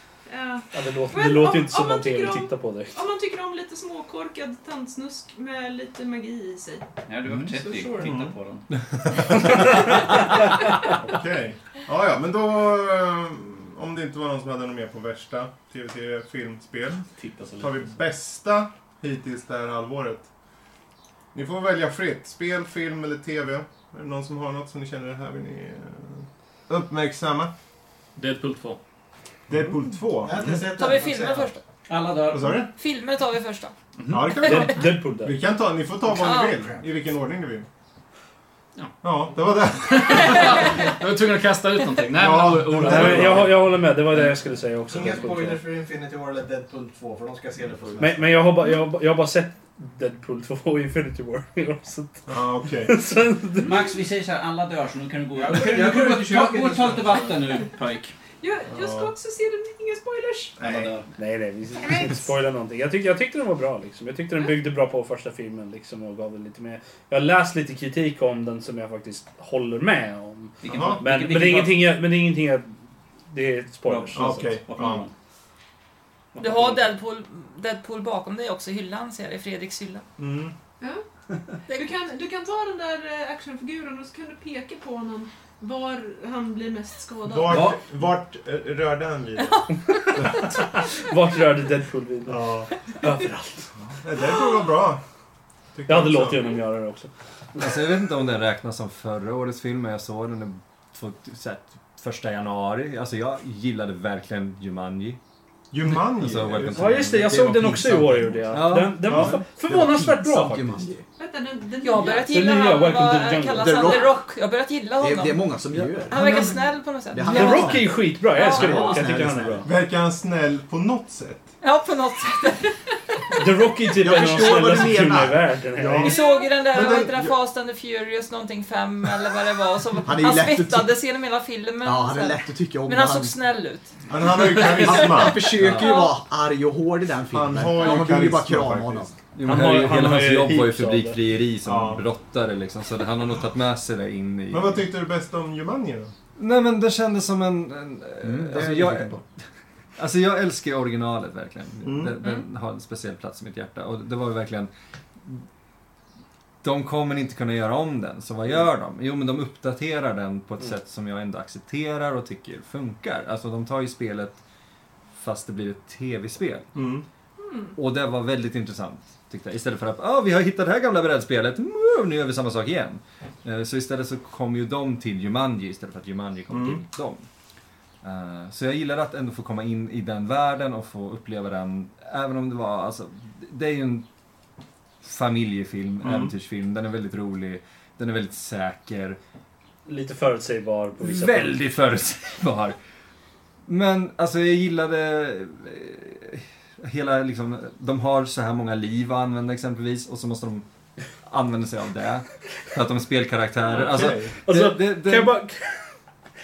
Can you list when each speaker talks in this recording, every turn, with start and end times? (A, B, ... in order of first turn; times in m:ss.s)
0:00.3-0:06.9 A
0:00.7-0:03.0 B
0:07.1-0:08.7 C
0:07.5-0:08.2 A
0:08.0-0:08.3 D
0:09.1-0:10.3 D
0:10.9-0:17.1 D
0:17.2-0:17.9 C
0:17.6-0:20.3 D
0:21.3-0:27.5 D
0:28.2-0:28.8 E
0:29.5-0:30.6 D
0:30.2-0:31.5 F
0:30.7-0:31.6 G
0:31.9-0:32.6 C
0:32.3-0:32.7 D
0:32.6-0:33.7 G
0:34.0-0:34.3 E
0:34.1-0:37.7 D
0:34.4-0:34.8 G
0:34.4-0:35.3 B
0:36.1-0:36.7 G
0:39.0-0:40.9 D
0:39.9-0:43.5 E
0:42.1-0:43.5 D
0:42.8-0:45.6 B
0:44.9-0:48.4 F
0:48.0-0:53.7 B
0:52.3-0:53.0 D
0:53.6-0:58.1 C
0:55.3-0:57.4 F
0:58.4-1:00.6 A
0:58.7-0:59.1 D
1:00.6-1:01.1 C
1:00.6-1:00.9 F
1:01.2-1:12.7 B
1:10.6-1:11.8 C
1:10.6-1:11.0 D
1:13.3-1:14.6 B
1:13.8-1:15.1 C
1:14.1-1:15.0 D
1:16.3-1:16.8 C
1:16.4-1:20.0 G
1:20.2-1:20.5 D
1:21.7-1:27.7 A
1:27.2-1:29.6 D
1:27.4-1:27.8 C
1:29.4-1:29.6 G
1:30.2-1:30.6 D
1:30.9-1:32.4 B
1:32.2-1:32.7 D
1:33.0-1:33.5 B
1:33.8-1:35.0 D
1:35.7-1:36.5 D
1:35.9-1:37.1 B
1:37.6-1:45.2 H
1:45.7-1:47.1 D
1:45.9-1:47.4 H
1:46.8-1:50.6 B
1:47.0-1:51.0 I
1:48.5-1:49.3 H
1:49.1-1:49.4 D
1:51.2-1:52.5 A
1:51.8-1:59.0 G
1:52.3-1:53.9 B
1:53.6-1:54.2 I
1:55.0-1:56.6 I
1:57.1-1:59.7 I
1:57.2-1:59.7 B
1:59.6-2:01.5 D
2:01.6-2:02.8 G
2:03.4-2:06.1 B
2:04.0-2:05.5 I
2:05.8-2:07.3 D
2:06.0-2:13.9 G
2:06.1-2:06.5 A
2:10.0-2:10.9 I
2:11.8-2:13.3 I
2:14.1-2:15.5 D
2:14.5-2:16.0 G
2:14.7-2:19.2 I
2:15.6-2:16.0 H
2:17.3-2:19.2 D
2:19.3-2:24.8 H
2:19.4-2:21.2 B
2:21.6-2:22.0 D
2:24.5-2:26.1 D
2:26.4-2:29.2 H
2:28.2-2:29.2 I
2:30.0-2:35.4 H
2:31.8-2:32.2 D
2:36.6-2:44.4 H
2:45.2-2:46.7 H
2:46.7-2:47.0 D
2:47.4-2:47.8 A
2:47.7-2:57.2 H
2:56.5-2:56.8 D
2:58.0-3:04.0 H
3:05.0-3:09.2 H
3:06.0-3:06.3 D
3:09.8-3:11.6 B
3:11.0-3:12.8 H
3:13.6-3:20.6 H
3:21.2-3:25.3 H
3:23.7-3:24.3 D
3:24.4-3:25.8 B